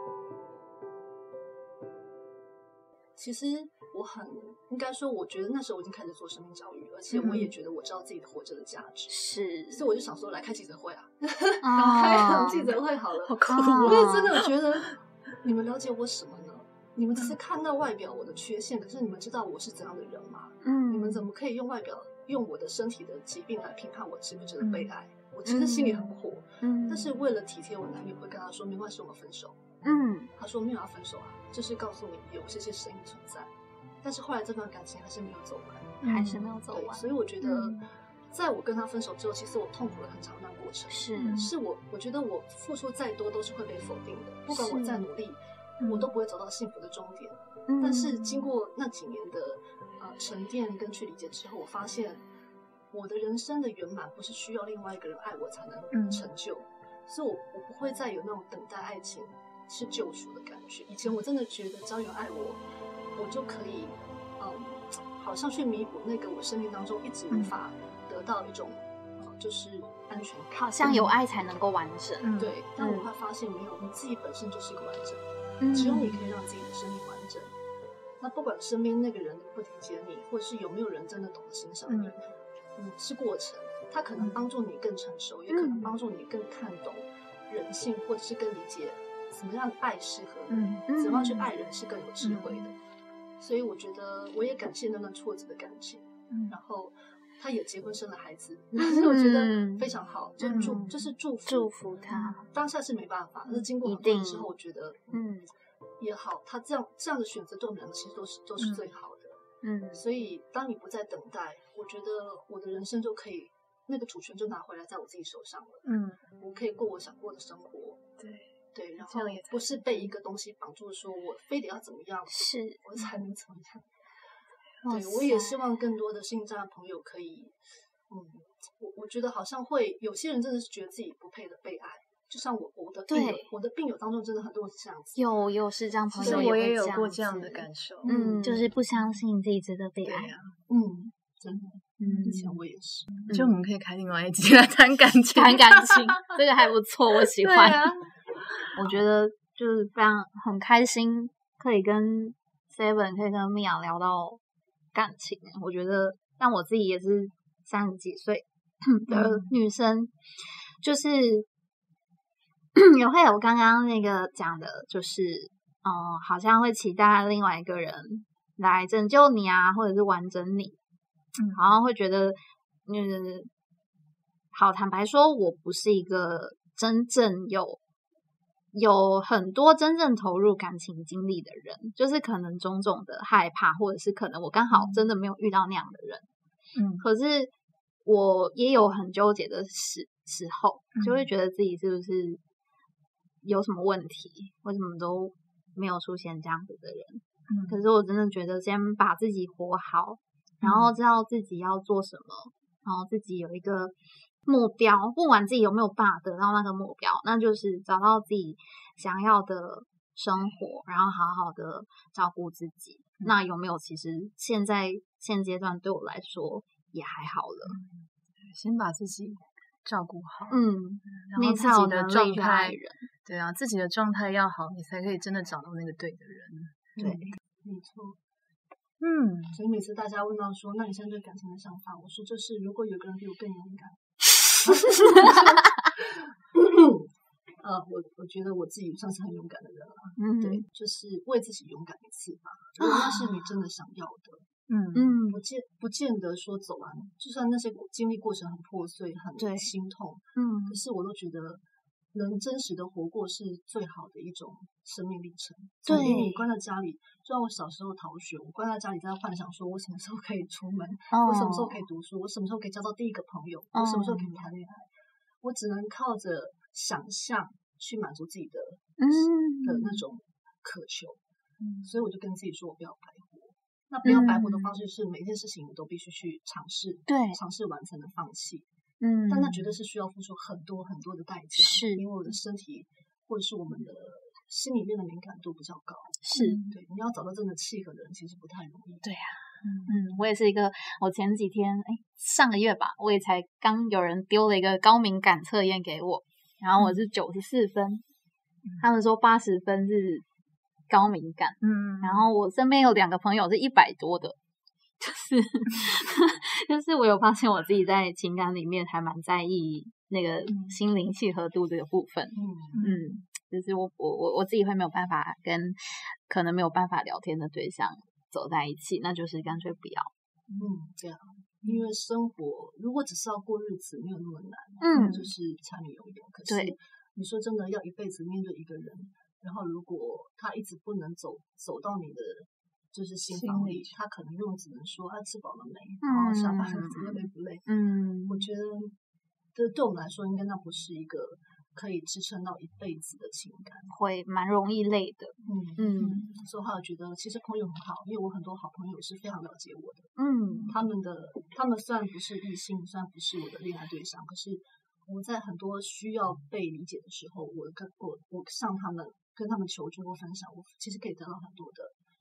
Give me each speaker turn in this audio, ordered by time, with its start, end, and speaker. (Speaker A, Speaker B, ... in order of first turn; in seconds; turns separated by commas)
Speaker A: 3.2-29.7, Speaker B: 7.1-7.5, Speaker C: 9.1-9.8, Speaker C: 11.6-12.8, Speaker B: 13.2-14.5, Speaker C: 13.5-14.3, Speaker C: 20.6-21.3, Speaker B: 24.6-24.9, Speaker C: 25.4-27.1, Speaker C: 29.8-30.3, Speaker A: 30.3-52.2, Speaker B: 36.0-36.5, Speaker C: 36.0-37.7, Speaker C: 40.9-41.4, Speaker B: 41.2-41.5, Speaker C: 44.5-45.0, Speaker B: 45.8-46.1, Speaker C: 47.7-48.1, Speaker A: 52.9-62.6, Speaker B: 55.9-56.3, Speaker A: 63.1-71.1, Speaker C: 70.5-73.1, Speaker B: 70.8-71.1, Speaker B: 72.2-72.6, Speaker A: 72.4-77.5, Speaker C: 75.6-76.1, Speaker A: 78.2-92.8, Speaker B: 81.9-82.2, Speaker C: 85.5-85.9, Speaker B: 90.5-90.9, Speaker C: 90.9-91.4, Speaker B: 92.2-92.7, Speaker A: 93.4-101.7, Speaker B: 96.3-96.6, Speaker C: 98.8-99.9, Speaker C: 100.4-102.5, Speaker B: 100.4-100.9, Speaker B: 102.1-102.4, Speaker A: 102.5-105.2, Speaker C: 103.8-104.5, Speaker C: 105.1-105.5, Speaker A: 106.0-115.9, Speaker B: 108.6-108.8, Speaker C: 109.6-110.0, Speaker B: 115.8-116.2, Speaker A: 116.4-118.0, Speaker B: 118.2-120.1, Speaker A: 118.7-123.9, Speaker C: 122.3-122.8, Speaker C: 124.8-125.5, Speaker A: 124.9-135.3, Speaker C: 133.1-133.5, Speaker C: 135.2-140.3, Speaker A: 136.1-136.5, Speaker B: 136.2-139.2, Speaker A: 138.1-138.7, Speaker B: 140.0-140.6, Speaker A: 140.7-143.2, Speaker C: 142.0-142.4, Speaker B: 142.0-142.6, Speaker B: 143.2-146.3, Speaker C: 143.3-143.6, Speaker C: 145.3-148.0, Speaker B: 147.3-148.0, Speaker B: 148.6-149.0, Speaker C: 148.8-154.4, Speaker C: 154.9-160.1, Speaker B: 159.1-159.5, Speaker C: 160.8-161.5, Speaker C: 162.8-170.8, Speaker B: 171.4-171.7, Speaker C: 171.5-173.5, Speaker C: 174.5-177.8, Speaker C: 178.7-186.3, Speaker B: 184.7-185.0, Speaker B: 186.8-187.0, Speaker C: 187.0-187.5, Speaker C: 188.1-192.4, Speaker B: 190.9-191.3, Speaker C: 193.4-203.9, Speaker B: 197.5-197.8, Speaker B: 200.6-200.9, Speaker C: 204.5-217.8, Speaker B: 217.7-227.2, Speaker C: 220.5-223.1, Speaker A: 227.0-228.2, Speaker C: 227.0-227.4, Speaker B: 229.0-229.6, Speaker A: 229.5-237.1, Speaker A: 237.6-244.4, Speaker C: 240.2-240.7, Speaker C: 242.8-243.2, Speaker B: 244.7-245.2, Speaker C: 244.9-245.4, Speaker A: 245.3-251.6, Speaker C: 249.4-249.7, Speaker C: 250.4-250.8, Speaker A: 252.1-264.9, Speaker C: 255.9-256.4, Speaker C: 261.1-261.8, Speaker C: 263.7-264.3, Speaker A: 265.4-271.2, Speaker C: 269.0-270.0, Speaker B: 271.6-271.9, Speaker A: 271.8-278.7, Speaker C: 274.1-274.6, Speaker C: 277.1-277.4, Speaker C: 279.0-279.6, Speaker A: 279.3-289.1, Speaker C: 281.6-282.0, Speaker C: 286.2-286.6, Speaker B: 286.4-286.8, Speaker C: 289.0-298.0, Speaker B: 289.6-290.2, Speaker C: 298.8-300.2, Speaker C: 300.9-304.4, Speaker B: 301.6-302.2, Speaker C: 305.0-320.1, Speaker B: 310.5-310.8, Speaker A: 312.4-312.8, Speaker B: 312.7-313.1, Speaker A: 320.6-337.7, Speaker C: 324.8-325.2, Speaker B: 324.9-325.3, Speaker C: 326.5-326.8, Speaker B: 333.3-334.0, Speaker C: 336.0-338.5, Speaker A: 338.3-339.0, Speaker A: 339.6-343.9, Speaker C: 343.9-346.3, Speaker A: 345.5-350.1, Speaker B: 346.0-346.4, Speaker C: 350.2-350.7, Speaker A: 350.7-361.9